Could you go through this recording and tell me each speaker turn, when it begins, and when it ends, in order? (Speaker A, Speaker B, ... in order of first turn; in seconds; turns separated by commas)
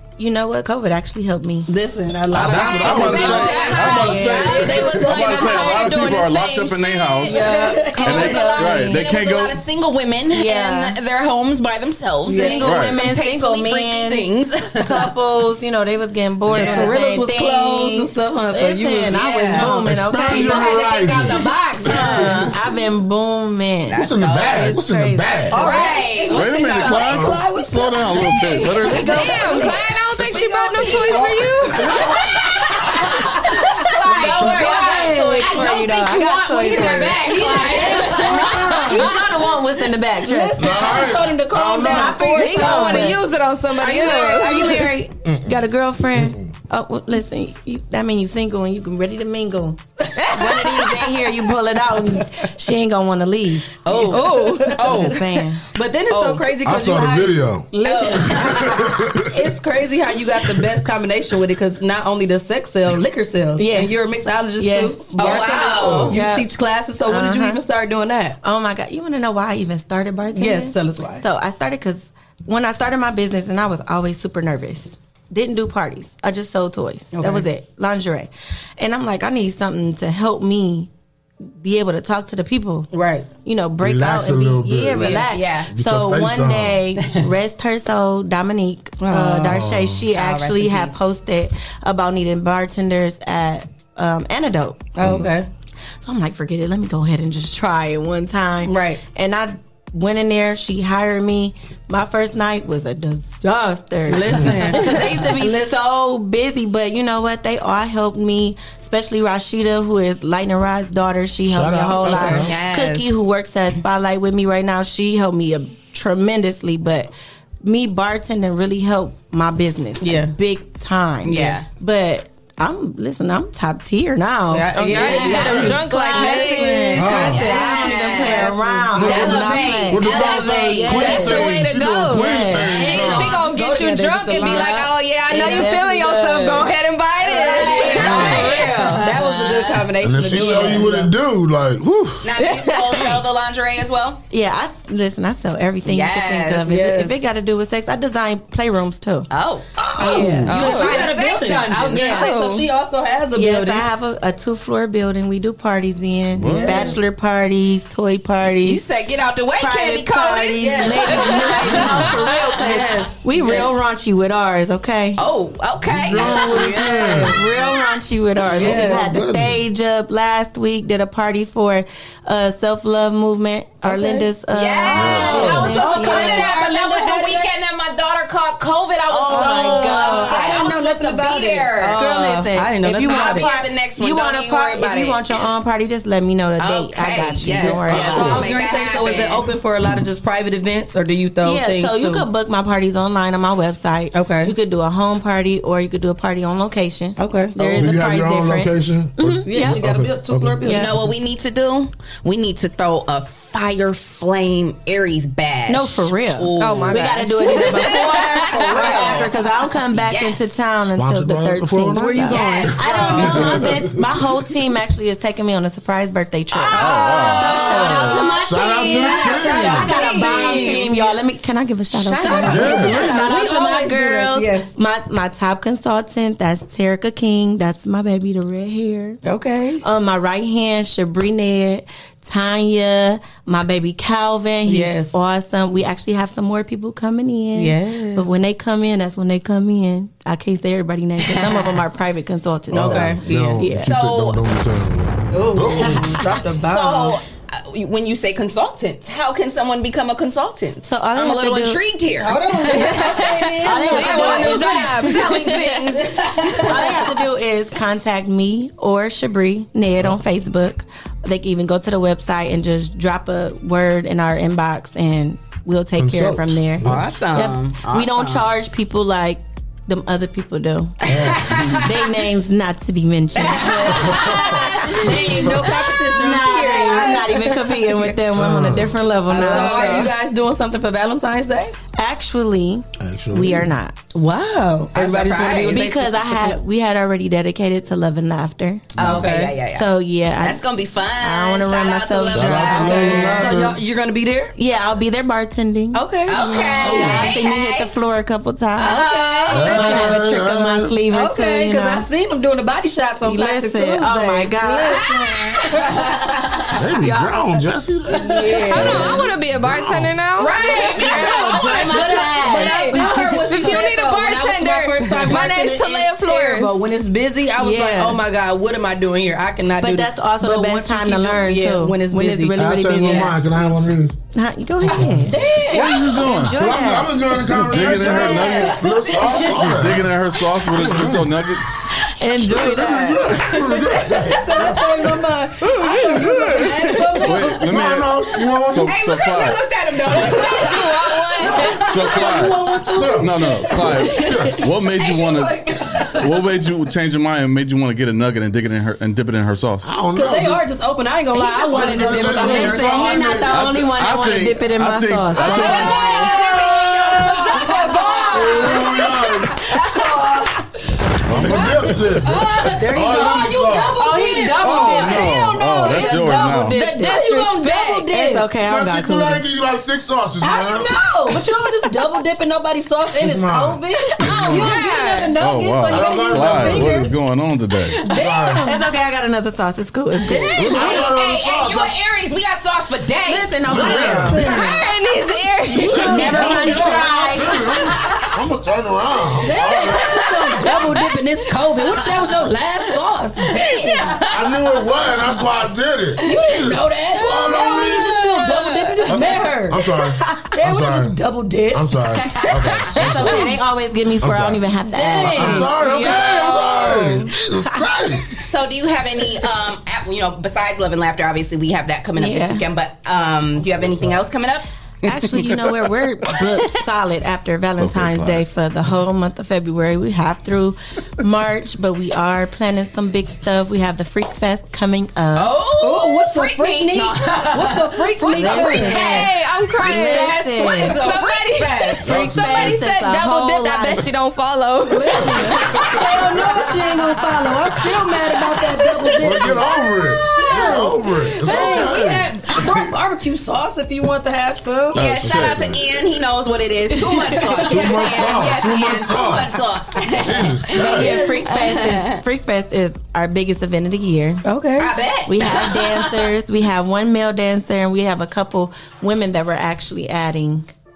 Speaker A: 0.2-1.7, Speaker B: 1.7-3.9, Speaker C: 2.3-5.0, Speaker D: 2.5-15.1, Speaker A: 2.5-4.7, Speaker E: 3.0-9.6, Speaker F: 4.3-6.8, Speaker B: 7.3-8.2, Speaker A: 7.3-9.1, Speaker A: 10.3-11.0, Speaker A: 12.2-14.3, Speaker E: 12.5-13.0, Speaker A: 14.8-26.0, Speaker B: 16.5-19.9, Speaker D: 16.5-16.9, Speaker D: 19.1-22.5, Speaker C: 19.7-22.5, Speaker D: 23.9-24.6, Speaker C: 23.9-25.7, Speaker B: 25.5-29.7, Speaker D: 25.5-27.1, Speaker E: 26.3-29.6, Speaker C: 27.0-27.4, Speaker F: 28.9-31.9, Speaker D: 30.7-31.2, Speaker C: 31.7-32.3, Speaker D: 31.9-32.1, Speaker D: 32.9-33.2, Speaker D: 34.0-38.9, Speaker C: 34.0-34.8, Speaker A: 34.1-40.9, Speaker B: 36.9-39.1, Speaker B: 40.2-43.1, Speaker C: 40.6-42.2, Speaker A: 41.7-43.2, Speaker F: 42.3-44.6, Speaker A: 43.8-49.8, Speaker B: 43.8-44.8, Speaker C: 45.2-45.6, Speaker C: 46.1-46.5, Speaker A: 50.3-54.0, Speaker D: 53.8-55.2, Speaker B: 53.9-55.1, Speaker F: 54.1-54.7, Speaker A: 54.7-55.6, Speaker B: 55.7-68.4, Speaker D: 56.1-56.5, Speaker C: 56.6-57.7, Speaker D: 57.8-58.8, Speaker C: 58.3-59.3, Speaker A: 63.6-63.9, Speaker A: 64.6-66.5, Speaker D: 65.1-66.2, Speaker C: 65.8-66.1, Speaker A: 67.0-67.6, Speaker A: 68.4-80.9, Speaker B: 70.3-71.2, Speaker B: 77.1-77.5, Speaker A: 81.6-95.2, Speaker B: 82.9-83.3, Speaker C: 83.8-86.8, Speaker D: 85.0-85.7, Speaker B: 89.0-89.7, Speaker C: 89.5-90.0, Speaker D: 90.2-90.9, Speaker B: 94.9-95.5, Speaker C: 95.0-95.3, Speaker A: 96.0-117.1, Speaker B: 98.6-99.0, Speaker B: 104.1-105.8, Speaker C: 104.3-104.5, Speaker C: 111.5-112.5, Speaker D: 112.3-113.1, Speaker A: 117.6-132.8, Speaker B: 120.0-120.3, Speaker D: 121.2-121.7, Speaker B: 124.5-129.7, Speaker F: 124.8-126.7, Speaker D: 125.0-125.7, Speaker C: 126.9-127.5, Speaker D: 127.1-131.5, Speaker C: 128.9-133.3, Speaker F: 131.2-137.9, Speaker B: 132.8-134.9, Speaker A: 134.3-136.7, Speaker B: 137.2-141.1, Speaker A: 137.3-139.2, Speaker D: 137.4-140.6, Speaker C: 137.9-138.5, Speaker C: 140.0-142.3, Speaker A: 140.3-140.8, Speaker D: 142.2-144.2, Speaker B: 142.6-143.1, Speaker A: 144.3-149.3, Speaker D: 145.8-146.6, Speaker B: 146.6-147.2, Speaker D: 149.3-152.3, Speaker C: 149.8-150.6, Speaker A: 150.0-151.1, Speaker B: 150.0-153.8, Speaker A: 151.7-152.4, Speaker F: 152.2-152.7, Speaker A: 153.3-158.8, Speaker E: 156.3-156.9, Speaker B: 156.4-157.0, Speaker D: 158.6-162.0, Speaker A: 159.5-165.2, Speaker B: 161.4-163.7, Speaker D: 165.2-167.3, Speaker C: 165.8-167.4, Speaker B: 166.3-167.4, Speaker A: 166.7-176.6, Speaker C: 168.6-169.6, Speaker B: 168.6-169.1, Speaker B: 173.8-174.3, Speaker D: 174.5-182.0, Speaker C: 174.9-175.8, Speaker B: 175.4-177.5, Speaker A: 179.1-180.8, Speaker B: 179.3-183.5, Speaker A: 181.8-188.4, Speaker D: 183.0-185.2, Speaker D: 186.6-189.4, Speaker C: 187.6-188.5, Speaker B: 187.8-192.2, Speaker A: 191.4-200.0, Speaker B: 194.1-194.5, Speaker B: 197.2-197.6, Speaker C: 197.6-200.8, Speaker B: 199.4-200.9, Speaker A: 200.6-200.9, Speaker D: 200.6-209.3, Speaker A: 205.7-229.2, Speaker F: 206.6-208.0, Speaker D: 209.9-210.6, Speaker C: 210.8-214.2, Speaker B: 212.0-212.7, Speaker D: 212.1-213.3, Speaker D: 216.5-220.9, Speaker E: 216.7-218.1, Speaker B: 217.6-221.2, Speaker C: 218.2-219.9, Speaker B: 221.9-224.7, Speaker C: 222.4-223.2, Speaker B: 229.2-229.8, Speaker A: 229.8-243.9, Speaker B: 234.7-235.1, Speaker B: 237.5-238.3, Speaker D: 241.4-241.7, Speaker C: 242.7-246.1, Speaker B: 242.7-243.7, Speaker D: 243.8-244.4, Speaker B: 245.3-247.2, Speaker A: 245.8-246.2, Speaker D: 246.6-253.5, Speaker A: 250.8-252.6, Speaker B: 252.2-255.1, Speaker F: 252.8-253.2, Speaker A: 253.6-255.8, Speaker F: 253.8-255.9, Speaker D: 254.1-256.9, Speaker A: 256.4-271.1, Speaker B: 256.4-257.0, Speaker C: 266.0-267.1, Speaker D: 266.8-268.5, Speaker C: 271.1-271.8, Speaker D: 271.1-271.9, Speaker A: 271.8-274.4, Speaker D: 273.3-275.6, Speaker C: 273.9-274.8, Speaker B: 275.0-278.1, Speaker A: 275.0-280.1, Speaker C: 278.3-279.0, Speaker B: 279.3-281.7, Speaker D: 279.3-280.1, Speaker A: 281.9-284.0, Speaker C: 283.0-283.7, Speaker B: 284.1-286.6, Speaker D: 284.9-286.2, Speaker A: 285.3-290.6, Speaker D: 288.9-293.4, Speaker C: 289.0-289.3, Speaker B: 289.0-289.6, Speaker A: 291.2-293.8, Speaker C: 292.3-293.7, Speaker B: 292.8-294.5, Speaker A: 294.6-302.1, Speaker B: 295.9-296.8, Speaker D: 296.2-297.9, Speaker C: 296.8-297.4, Speaker D: 298.8-299.7, Speaker B: 298.8-300.2, Speaker C: 299.5-300.9, Speaker B: 301.1-306.1, Speaker A: 303.2-305.1, Speaker D: 304.9-306.8, Speaker C: 306.7-310.1, Speaker A: 306.9-307.4, Speaker A: 308.1-309.2, Speaker B: 308.3-309.0, Speaker F: 308.7-310.6, Speaker B: 310.4-323.2, Speaker D: 310.6-313.9, Speaker A: 310.7-312.8, Speaker F: 312.6-316.8, Speaker A: 317.5-318.2, Speaker A: 319.8-323.3, Speaker C: 322.5-324.2, Speaker A: 324.3-329.5, Speaker C: 324.8-325.4, Speaker B: 325.3-326.2, Speaker E: 325.7-326.8, Speaker C: 326.2-330.1, Speaker E: 327.4-331.9, Speaker C: 330.7-331.4, Speaker A: 332.1-333.3, Speaker C: 332.4-335.1, Speaker D: 332.8-334.3, Speaker B: 334.3-337.6, Speaker E: 337.2-340.4, Speaker C: 337.4-338.9, Speaker D: 338.8-341.1, Speaker F: 340.6-341.8, Speaker D: 341.8-342.2, Speaker B: 341.8-344.4, Speaker E: 341.8-349.9, Speaker C: 342.9-344.6, Speaker D: 344.9-346.0, Speaker C: 349.8-350.6, Speaker B: 350.1-352.8, Speaker D: 351.3-353.4, Speaker C: 351.6-356.1, Speaker A: 352.1-356.3, Speaker E: 353.4-355.9, Speaker D: 355.5-358.8, Speaker B: 355.6-360.5, Speaker F: 357.5-358.6, Speaker C: 358.3-359.6, Speaker D: 359.7-360.5, Speaker C: 361.2-364.0, Speaker B: 361.4-366.3, Speaker D: 361.4-361.9, Speaker A: 362.9-369.4, Speaker E: 364.5-366.8, Speaker C: 364.7-365.3, Speaker F: 366.8-368.1, Speaker B: 367.1-368.5, Speaker C: 368.6-370.9, Speaker B: 370.4-377.1, Speaker C: 373.2-374.8, Speaker F: 374.2-375.4, Speaker E: 375.4-378.0, Speaker C: 375.9-377.1, Speaker C: 378.1-378.7, Speaker B: 378.1-378.9, Speaker A: 378.6-380.8, Speaker C: 380.5-381.9, Speaker D: 380.7-384.7, Speaker A: 383.2-384.5, Speaker C: 383.6-384.5, Speaker B: 383.9-384.8, Speaker F: 384.5-386.8, Speaker B: 385.7-387.2, Speaker C: 385.8-390.3, Speaker A: 385.9-387.6, Speaker B: 389.4-394.2, Speaker F: 390.1-391.1, Speaker C: 394.3-398.1, Speaker B: 396.2-401.9, Speaker F: 397.6-398.7, Speaker D: 398.6-398.8, Speaker C: 399.1-401.1, Speaker C: 401.7-403.5, Speaker D: 402.4-402.9, Speaker A: 402.9-405.7, Speaker C: 404.2-404.6, Speaker B: 404.9-405.8, Speaker C: 405.2-408.3, Speaker F: 405.7-407.0, Speaker D: 408.4-414.6, Speaker A: 412.2-412.6, Speaker C: 413.8-414.2, Speaker A: 415.0-425.6, Speaker E: 417.7-418.4, Speaker D: 425.3-429.2, Speaker B: 425.8-429.2, Speaker A: 428.3-429.3, Speaker F: 428.8-436.0, Speaker A: 429.8-431.1, Speaker D: 429.8-432.1, Speaker A: 432.0-434.1, Speaker C: 432.0-432.8, Speaker B: 434.9-439.6, Speaker C: 435.6-436.6, Speaker C: 439.1-442.9, Speaker B: 440.2-445.0, Speaker D: 444.9-450.9, Speaker E: 444.9-445.8, Speaker C: 445.2-445.8, Speaker C: 447.5-449.6, Speaker C: 450.2-451.2, Speaker A: 450.8-454.4, Speaker B: 450.9-451.8, Speaker D: 451.6-452.1, Speaker B: 454.4-454.9, Speaker D: 454.8-456.0, Speaker A: 455.3-460.7